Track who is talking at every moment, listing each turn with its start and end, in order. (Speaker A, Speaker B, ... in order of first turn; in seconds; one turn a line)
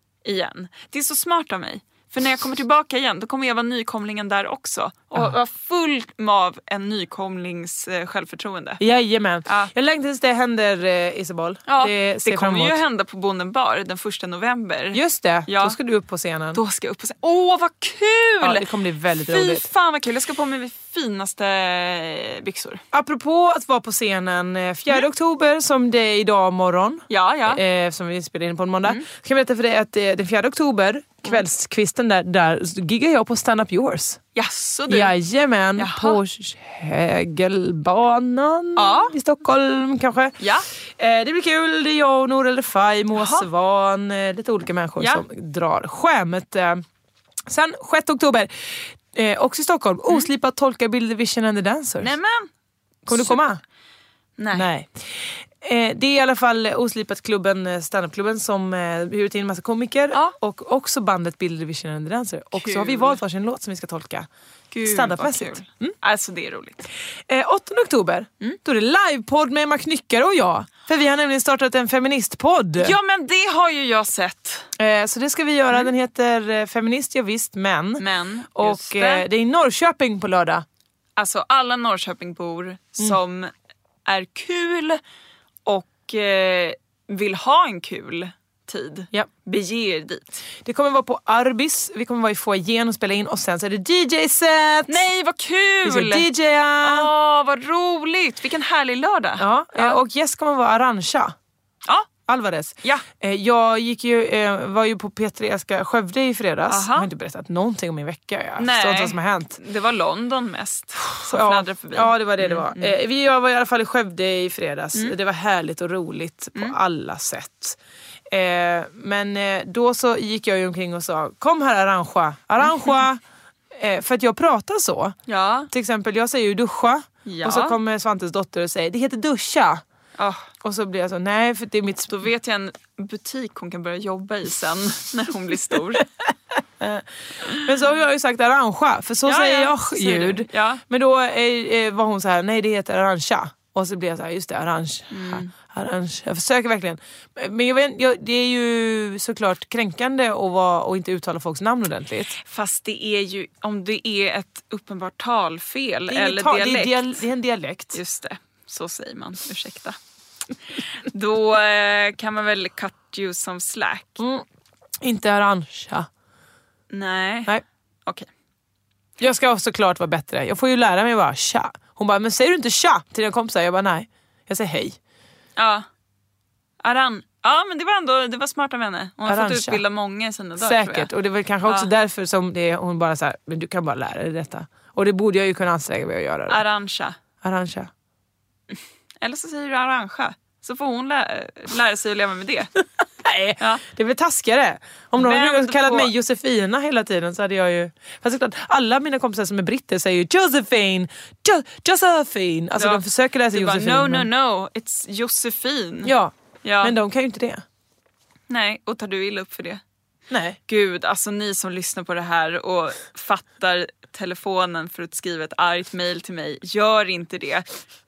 Speaker A: 0.2-8.8
Speaker B: 8.8-12.8
Speaker A: 11.7-15.8
Speaker B: 14.9-16.6
Speaker A: 16.5-18.7
Speaker B: 18.4-19.7
Speaker A: 19.3-22.8
Speaker B: 22.9-34.2
Speaker A: 27.1-27.6
Speaker A: 34.4-35.1
Speaker B: 34.9-40.4
Speaker A: 35.8-36.2
Speaker A: 38.8-39.1
Speaker A: 40.4-40.7
Speaker B: 41.0-46.8
Speaker A: 43.1-43.5
Speaker B: 47.5-52.1
Speaker A: 52.0-52.5
Speaker A: 53.1-53.4
Speaker B: 53.1-53.6
Speaker A: 54.4-54.7
Speaker B: 54.5-64.3
Speaker A: 62.5-63.2
Speaker A: 64.7-66.9
Speaker B: 64.9-66.0
Speaker B: 67.3-73.0
Speaker A: 72.8-74.7
Speaker B: 74.8-78.0
Speaker A: 78.0-79.2
Speaker B: 78.6-80.7
Speaker A: 81.2-83.5
Speaker A: 84.1-85.0
Speaker A: 85.7-90.4
Speaker B: 90.6-95.0
Speaker A: 94.9-96.3
Speaker B: 95.8-97.1
Speaker A: 96.8-100.0
Speaker B: 99.4-101.3
Speaker B: 102.3-109.6
Speaker A: 106.7-107.1
Speaker A: 108.6-113.0
Speaker B: 111.2-117.8
Speaker B: 118.3-123.2
Speaker B: 123.8-125.2
Speaker A: 125.3-125.7
Speaker B: 125.7-129.8
Speaker A: 127.2-127.8
Speaker A: 130.2-130.5
Speaker B: 130.6-132.1
Speaker A: 132.1-136.1
Speaker B: 136.8-152.4
Speaker A: 139.3-140.8
Speaker A: 145.1-145.5
Speaker A: 152.4-157.2
Speaker B: 156.1-158.0
Speaker A: 157.9-160.0
Speaker A: 160.7-164.2
Speaker B: 164.2-164.4
Speaker B: 165.0-166.1
Speaker A: 166.9-167.5
Speaker B: 169.2-175.0
Speaker A: 175.6-175.9
Speaker A: 176.8-181.1
Speaker B: 179.3-179.8
Speaker B: 180.6-186.6
Speaker A: 186.5-187.2
Speaker B: 187.4-187.9
Speaker A: 188.7-192.7
Speaker B: 193.2-204.3
Speaker A: 195.2-196.1
Speaker A: 202.8-206.1
Speaker B: 206.1-207.6
Speaker A: 206.6-206.9
Speaker A: 208.5-209.8
Speaker B: 210.3-210.6
Speaker A: 210.7-217.7